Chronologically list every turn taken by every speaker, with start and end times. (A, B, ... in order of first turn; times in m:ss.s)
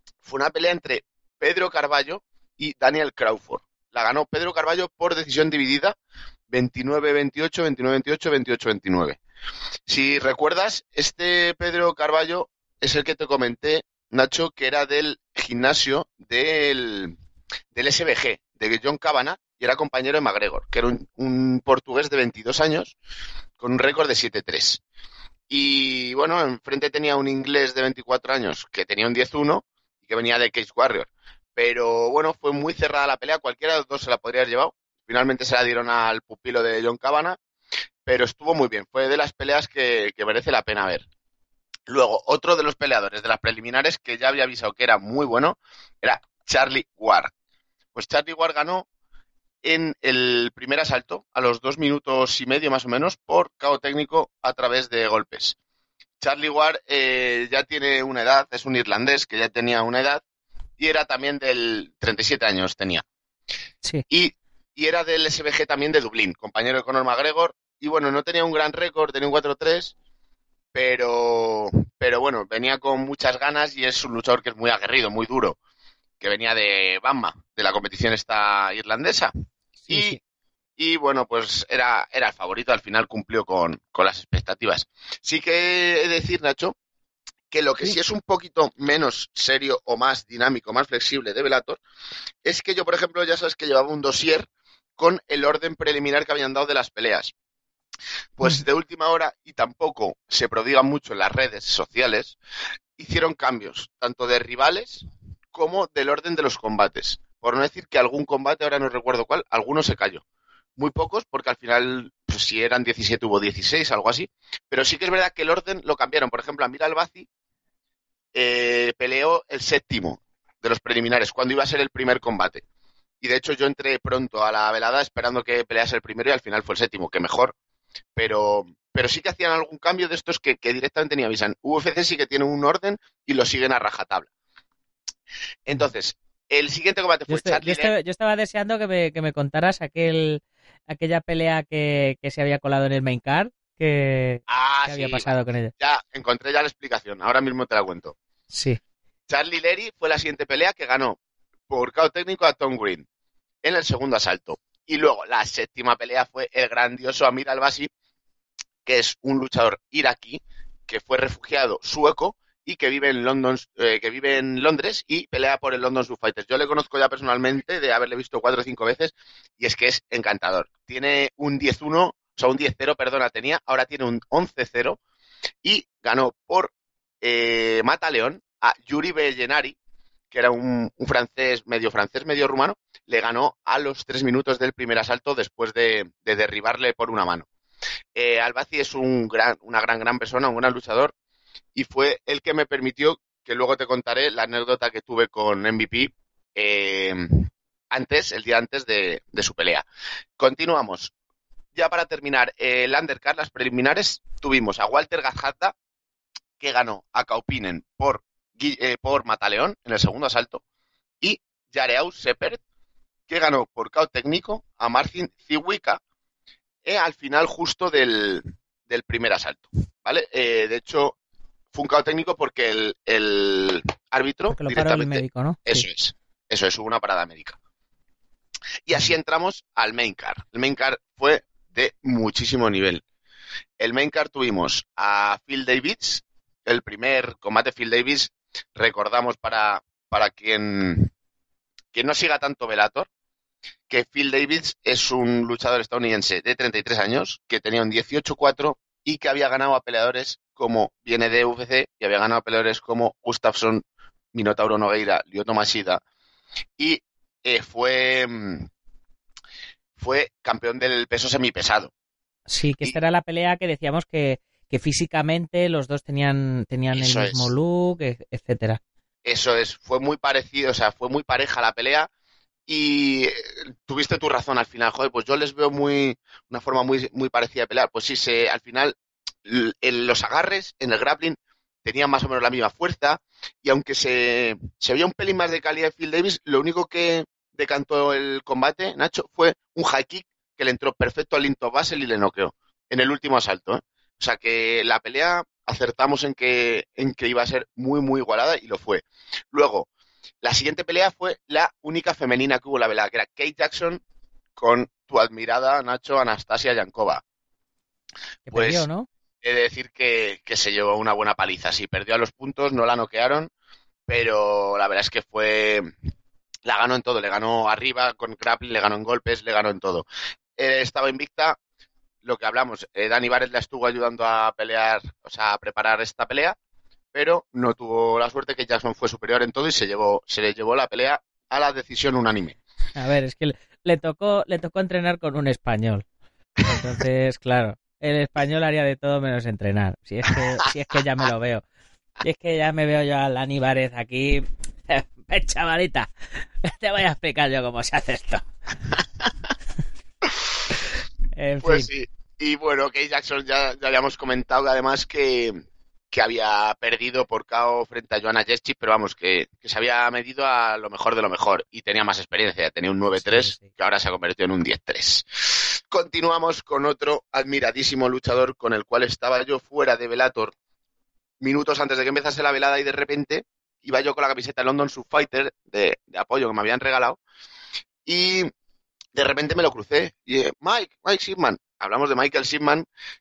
0:00.2-0:06.0 A
0:06.5-0:09.2 A
0:09.9-0:17.2 A
0:17.7-0:23.0 A
0:23.6-0:24.8 A
0:25.5-0:37.4 A
0:38.1-0:41.0 A
0:41.9-0:47.3 A
0:48.0-0:48.8 A
0:49.6-0:55.6 A
0:56.2-1:00.2 A
1:00.8-1:03.0 A
1:04.1-1:09.9 A
1:10.7-1:15.6 A
1:16.2-1:19.3 A
1:19.9-1:20.2 A
1:19.9-1:20.2 B
1:20.8-1:26.8 A
1:27.5-1:31.8 A
1:32.4-1:37.3 A
1:38.4-1:42.4 A
1:43.0-1:50.2 A
1:50.8-1:57.3 A
1:58.3-2:02.6 A
2:03.2-2:07.6 A
2:08.2-2:14.3 A
2:15.7-2:17.9 A
2:17.3-2:25.7 B
2:24.5-2:28.2 A
2:28.5-2:28.8 B
2:29.3-2:31.2 A
2:31.7-2:33.0 A
2:33.6-2:37.9 A
2:38.8-2:55.0 A
2:55.6-2:59.8 A
3:00.3-3:07.5 A
3:08.2-3:11.1 A
3:11.8-3:19.8 A
3:20.4-3:21.1 A
3:21.8-3:25.7 A
3:26.6-3:30.6 A
3:31.2-3:32.6 A
3:33.3-3:36.0 A
3:36.8-3:41.2 A
3:41.7-3:47.6 A
3:44.5-3:45.8 B
3:48.9-3:53.0 A
3:53.8-4:01.1 A
4:01.9-4:03.1 A
4:03.9-4:16.0 A
4:16.8-4:18.7 A
4:20.0-4:21.9 A
4:22.5-4:28.8 B
4:26.9-4:27.5 A
4:29.2-4:32.1 A
4:32.7-4:59.9 A
5:00.4-5:04.0 A
5:04.6-5:07.2 A
5:08.5-5:09.1 B
5:08.5-5:08.9 A
5:09.4-5:13.5 A
5:14.1-5:15.9 A
5:16.6-5:20.1 A
5:20.6-5:21.6 A
5:22.2-5:26.6 A
5:27.1-5:32.6 A
5:33.0-5:36.0 B
5:36.6-5:41.6 B
5:42.2-5:48.4 B
5:51.3-5:51.9 B
5:51.6-6:10.5 A
6:03.2-6:03.7 B
6:11.4-6:17.2 A
6:18.1-6:18.5 A
6:19.1-6:22.9 A